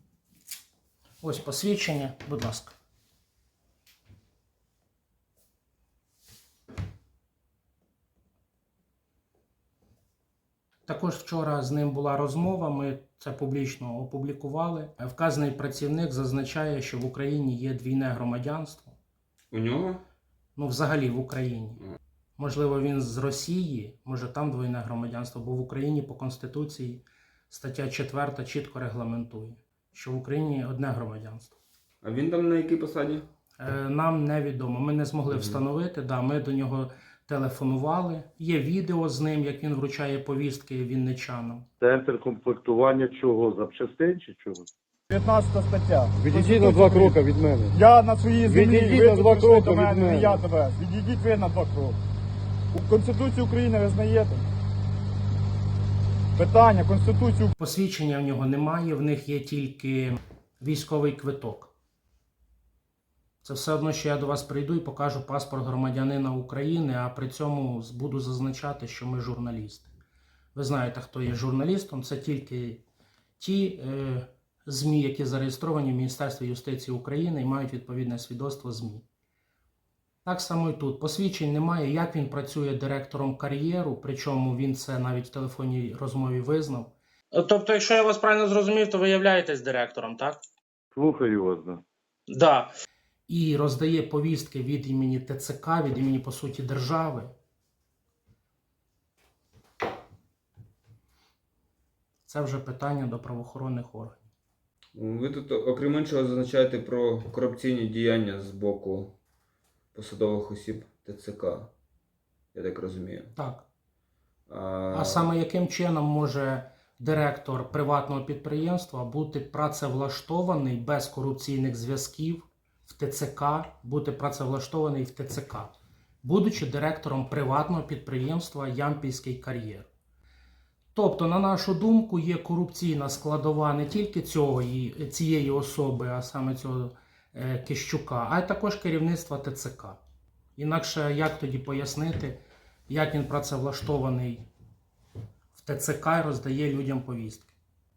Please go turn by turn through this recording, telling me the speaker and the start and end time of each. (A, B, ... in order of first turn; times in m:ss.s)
0:01.2-0:02.7 A
0:10.8-0:19.0 A
0:19.5-0:20.0 B
0:20.6-0:21.8 A
0:22.4-0:31.6 A
0:32.0-0:33.2 B
0:33.6-0:41.6 A
0:35.3-0:35.6 B
0:41.8-0:44.7 C
0:45.1-0:47.2 D
0:46.2-0:47.8 C
0:47.7-0:52.0 D
0:48.4-0:50.4 C
0:52.7-0:54.4 D
0:56.4-0:57.5 D
0:57.6-1:01.7 A
1:03.4-1:09.9 A
1:10.5-1:12.8 A
1:13.4-1:19.0 A
1:20.2-1:30.4 A
1:30.9-1:31.8 C
1:32.3-1:32.7 A
1:33.3-1:37.3 A
1:42.2-1:44.2 A
1:44.9-1:49.1 B
1:49.9-1:51.7 B
1:52.5-1:53.3 B
1:53.4-1:53.6 A
1:54.5-1:55.3 B
1:54.9-2:09.9 A
2:10.9-2:20.0 A
2:20.6-2:22.4 A
2:22.9-2:24.4 A
2:25.5-2:27.5 A